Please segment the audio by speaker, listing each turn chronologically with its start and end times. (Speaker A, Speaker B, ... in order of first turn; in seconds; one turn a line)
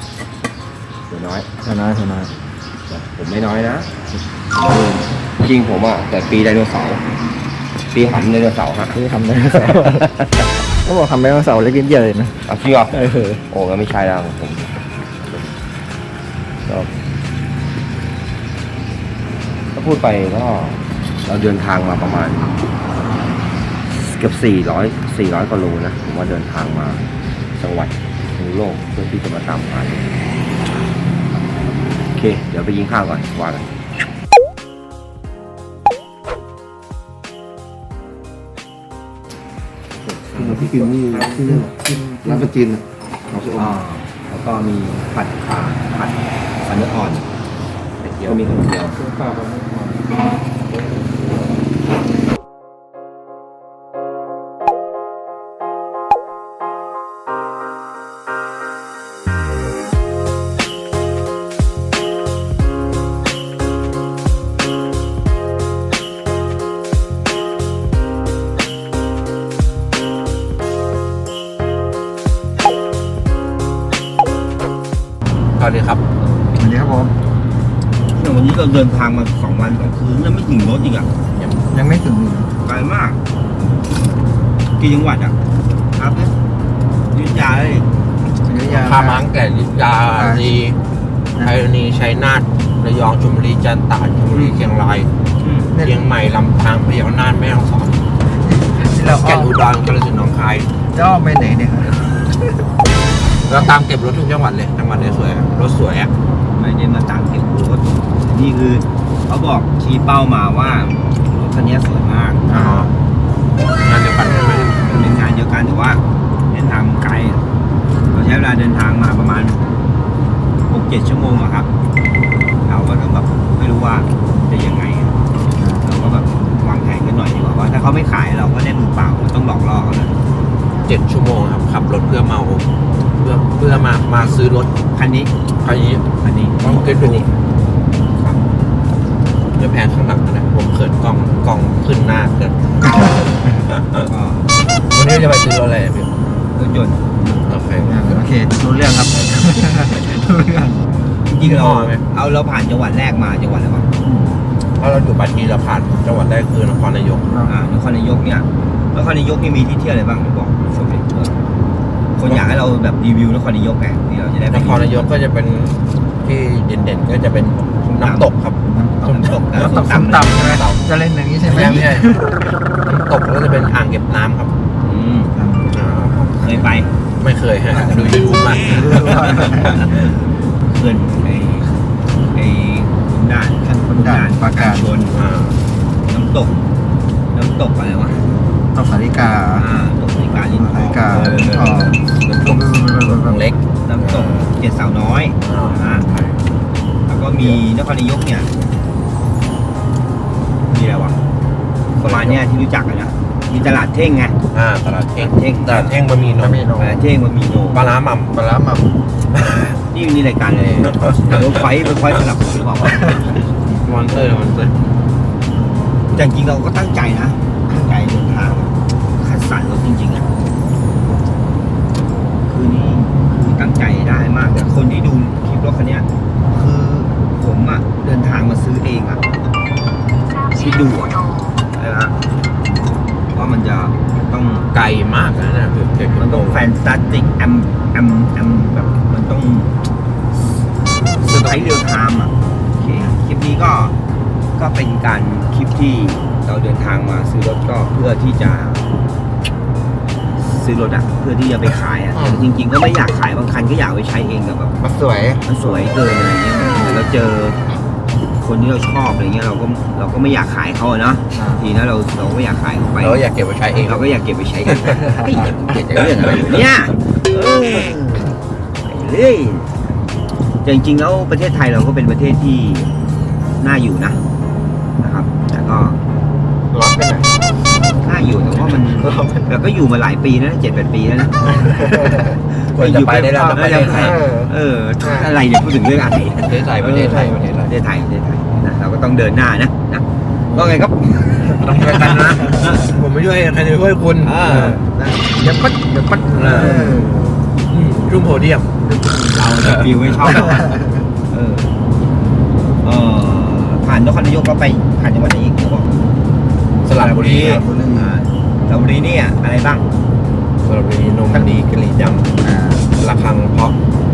Speaker A: 1.1-1.5
Speaker B: 1.6-2.3
Speaker A: 2.9-3.9
Speaker A: 4.5-7.0
Speaker A: 7.9-10.1
Speaker B: 9.0-10.1
Speaker B: 10.8-12.3
Speaker A: 12.5-15.6
Speaker A: 16.7-16.9
Speaker A: 19.7-22.6
Speaker A: 24.0-30.2
Speaker A: 31.3-33.7
Speaker C: 40.0-41.5
Speaker B: 41.5-42.5
Speaker D: 43.4-47.3
Speaker C: 48.0-48.4
Speaker D: 48.2-49.0
Speaker B: 49.0-50.0
Speaker C: 50.7-51.6
Speaker C: 75.6-76.0
Speaker B: 76.6-77.1
Speaker D: 78.1-81.1
Speaker C: 81.3-81.6
Speaker B: 81.7-82.5
Speaker D: 82.6-83.2
Speaker D: 84.8-85.4
Speaker D: 86.0-86.3
Speaker D: 87.1-87.9
Speaker B: 88.4-89.2
Speaker C: 88.6-90.8
Speaker B: 90.1-90.5
Speaker C: 91.4-95.1
Speaker D: 95.4-95.7
Speaker B: 95.7-96.1
Speaker C: 95.8-98.0
Speaker B: 98.4-99.6
Speaker C: 98.9-100.7
Speaker B: 100.9-102.1
Speaker C: 103.4-106.1
Speaker D: 106.6-112.5
Speaker C: 112.5-112.9
Speaker B: 112.5-112.9
Speaker C: 113.8-114.8
Speaker D: 114.8-116.0
Speaker D: 116.5-117.5
Speaker D: 118.1-119.6
Speaker D: 120.7-121.7
Speaker D: 122.7-125.2
Speaker B: 125.6-125.8
Speaker D: 125.8-130.2
Speaker C: 130.8-132.7
Speaker C: 133.2-134.7
Speaker D: 134.9-135.3
Speaker C: 135.6-137.3
Speaker D: 136.4-137.3
Speaker C: 139.6-144.1
Speaker D: 144.1-144.4
Speaker C: 144.9-146.1
Speaker D: 146.6-147.1
Speaker B: 147.2-150.8
Speaker C: 147.5-148.3
Speaker D: 151.3-153.9
Speaker C: 151.4-152.1
Speaker B: 154.1-154.3
Speaker C: 154.8-157.3
Speaker D: 157.4-161.4
Speaker D: 162.2-165.1
Speaker C: 164.5-170.8
Speaker D: 167.8-168.3
Speaker B: 168.7-172.4
Speaker D: 169.0-170.4
Speaker C: 171.5-172.3
Speaker C: 172.8-174.5
Speaker D: 174.8-175.3
Speaker B: 175.3-176.7
Speaker C: 175.7-176.3
Speaker D: 176.4-176.9
Speaker C: 177.2-180.1
Speaker B: 177.7-179.8
Speaker D: 180.6-181.8
Speaker D: 182.3-185.2
Speaker B: 183.6-184.9
Speaker C: 185.0-185.6
Speaker D: 186.1-186.6
Speaker D: 187.3-188.2
Speaker B: 188.7-189.7
Speaker D: 189.5-192.5
Speaker B: 190.5-193.4
Speaker C: 192.4-194.6
Speaker D: 193.8-196.1
Speaker C: 195.4-196.4
Speaker B: 195.9-196.3
Speaker D: 197.1-198.5
Speaker D: 200.7-201.2
Speaker C: 202.0-202.4
Speaker D: 202.0-204.4
Speaker C: 204.5-207.0
Speaker D: 205.2-206.0
Speaker B: 206.4-206.7
Speaker D: 206.8-207.8
Speaker C: 207.7-209.8
Speaker D: 209.9-213.2
Speaker C: 210.8-211.5
Speaker C: 213.8-214.7
Speaker D: 216.1-220.3
Speaker D: 222.5-229.2
Speaker D: 230.5-232.2
Speaker D: 233.3-234.7
Speaker C: 234.7-236.7
Speaker D: 236.2-239.7
Speaker D: 241.2-244.0
Speaker D: 244.6-248.9
Speaker D: 250.4-254.8
Speaker C: 252.2-252.4
Speaker B: 254.8-255.4
Speaker D: 255.5-257.6
Speaker D: 258.4-263.2
Speaker B: 261.4-261.6
Speaker C: 263.0-264.1
Speaker D: 263.8-270.0
Speaker C: 264.7-265.2
Speaker D: 270.6-272.9
Speaker D: 273.6-274.2
Speaker D: 275.0-276.0
Speaker C: 276.7-277.4
Speaker D: 278.0-292.4
Speaker C: 278.7-279.5
Speaker C: 282.7-284.3
Speaker B: 283.9-284.5
Speaker C: 285.0-285.3
Speaker C: 286.4-287.7
Speaker C: 291.6-294.8
Speaker D: 294.2-294.9
Speaker B: 294.9-297.2
Speaker D: 296.4-297.3
Speaker C: 296.4-296.8
Speaker C: 297.7-298.7
Speaker B: 298.9-299.4
Speaker D: 299.3-301.7
Speaker C: 299.4-300.2
Speaker B: 300.5-300.9
Speaker D: 302.8-306.0
Speaker C: 306.9-307.6
Speaker D: 306.9-309.9
Speaker B: 307.4-308.1
Speaker C: 310.6-312.3
Speaker B: 312.4-312.9
Speaker C: 312.9-313.8